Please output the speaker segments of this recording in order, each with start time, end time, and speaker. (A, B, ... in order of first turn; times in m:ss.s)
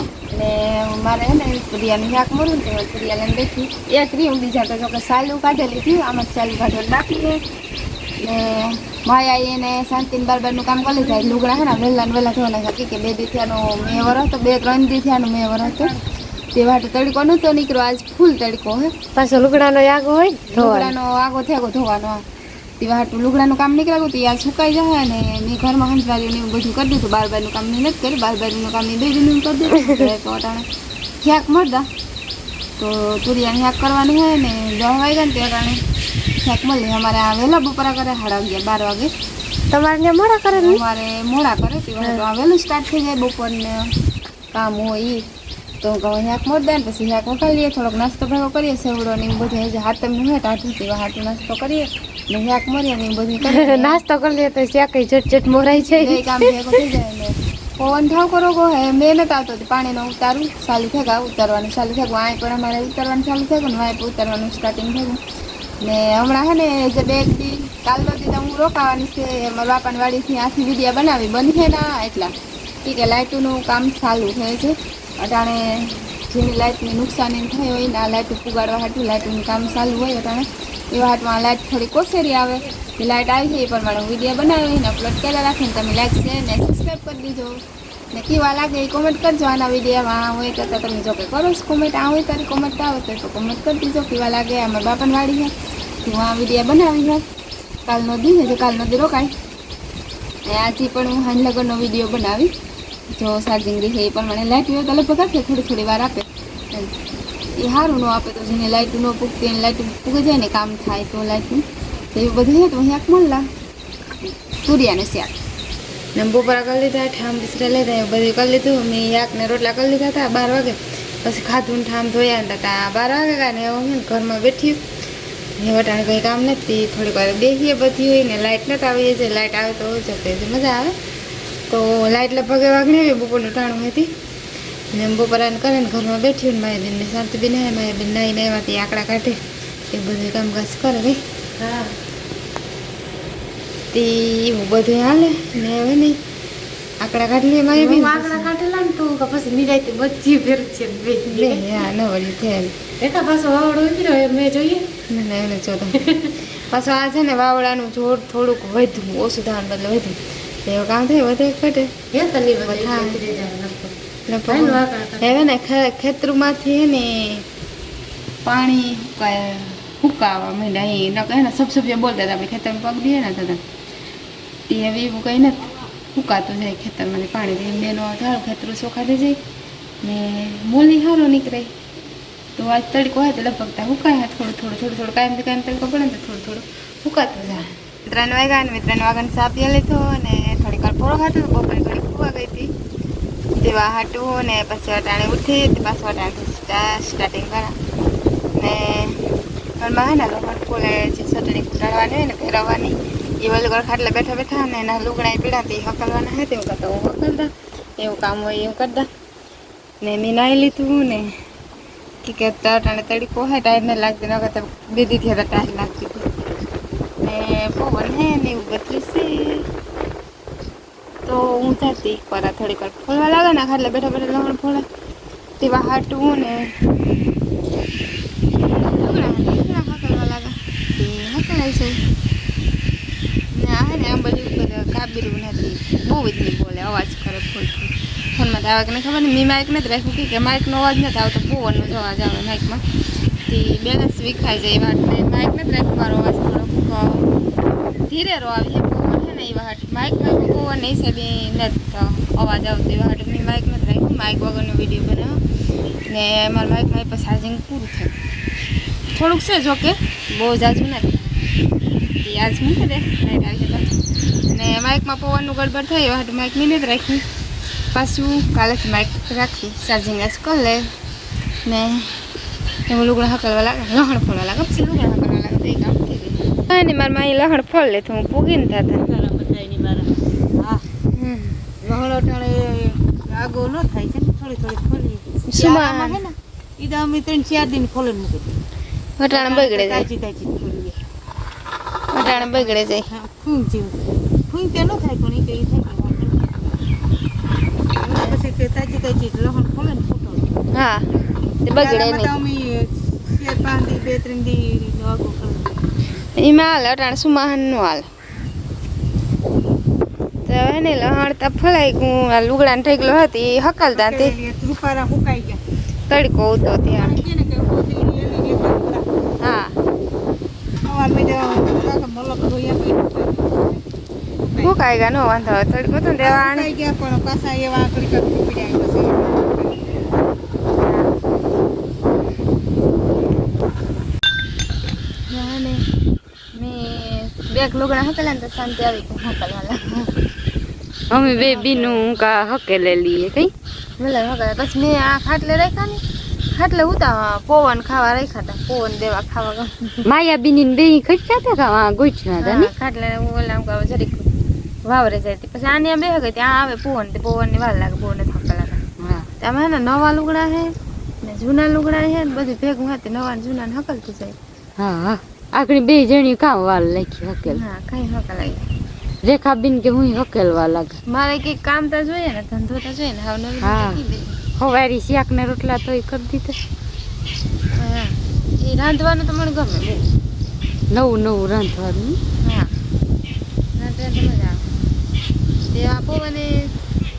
0:00.3-0:07.4 A
0:08.2-0:15.9 A
0:10.9-0:11.8 B
0:15.6-0:16.0 B
0:16.5-0:18.9 A
0:19.2-0:20.9 C
0:19.2-0:19.7 B
0:20.5-0:22.2 A
0:22.8-0:30.6 A
0:31.2-0:31.8 A
0:32.8-0:35.8 A
0:36.4-0:39.1 A
0:39.7-0:40.8 C
0:39.7-0:40.5 B
0:40.5-0:43.9 A
0:44.5-0:45.2 A
0:45.8-0:54.0 A
0:53.5-0:56.1 C
0:55.7-1:05.2 A
1:05.8-1:12.3 A
1:12.8-1:27.6 A
1:28.1-1:35.5 A
1:36.0-1:37.2 A
1:37.8-1:39.3 A
1:40.5-1:42.5 A
1:43.1-1:46.9 A
1:47.6-1:53.4 A
1:54.6-1:55.3 A
1:56.1-2:04.8 A
2:05.6-2:10.9 A
2:11.7-2:14.1 A
2:14.9-2:19.4 A
2:19.9-2:21.2 A
2:21.6-2:21.9 B
2:23.9-2:26.2 A
2:27.0-2:28.5 A
2:27.8-2:31.3 C
2:27.9-2:31.6 B
2:31.2-2:32.7 A
2:33.0-2:34.9 B
2:35.1-2:41.9 A
2:42.1-2:43.9 B
2:42.6-2:43.2 A
2:44.3-2:47.4 A
2:44.5-2:45.4 B
2:44.5-2:44.8 C
2:48.4-2:53.6 A
2:54.7-2:55.6 A
2:56.1-2:59.4 A
3:00.0-3:01.7 A
3:02.6-3:12.7 A
3:13.6-3:17.7 A
3:18.6-3:19.2 A
3:19.8-3:27.5 A
3:28.0-3:29.0 A
3:30.0-3:31.3 A
3:32.2-3:36.2 A
3:37.2-3:39.6 A
3:41.2-3:44.8 A
3:45.6-3:46.6 A
3:48.9-3:51.9 A
3:53.5-4:02.8 A
4:03.5-4:07.3 A
4:08.1-4:15.4 A
4:16.1-4:18.1 A
4:19.1-4:21.1 A
4:22.2-4:23.8 A
4:24.5-4:27.2 A
4:27.9-4:30.8 A
4:31.7-4:32.2 A
4:32.9-4:39.0 A
4:39.0-4:40.8 B
4:41.1-4:41.6 A
4:41.8-4:48.5 B
4:45.5-4:46.2 A
4:49.2-4:50.1 A
4:49.3-4:51.0 B
4:52.1-4:53.1 A
4:52.3-4:53.9 B
4:54.5-4:56.4 B
4:58.0-5:00.5 B
5:00.7-5:01.0 A
5:01.6-5:02.3 A
5:01.7-5:05.6 B
5:06.4-5:08.0 A
5:10.4-5:14.4 A
5:13.9-5:15.6 B
5:16.1-5:17.2 A
5:17.0-5:19.0 B
5:19.4-5:19.8 A
5:20.8-5:23.8 B
5:24.4-5:24.7 B
5:24.6-5:26.7 A
5:26.2-5:29.8 B
5:35.3-5:35.8 A
5:36.5-5:40.1 A
5:41.1-5:43.5 C
5:41.1-5:42.0 A
5:44.0-5:46.0 A
5:46.5-5:50.0 A
5:50.1-5:52.7 C
5:52.4-5:54.3 A
5:54.8-5:58.8 A
5:59.0-5:59.3 C
5:59.4-6:04.3 A
6:04.8-6:07.6 C
6:07.4-6:08.6 A
6:09.2-6:11.0 C
6:11.1-6:14.4 A
6:13.6-6:14.0 C
6:14.6-6:16.6 C
6:17.7-6:20.0 A
6:20.9-6:22.2 C
6:23.8-6:24.6 A
6:25.7-6:26.7 A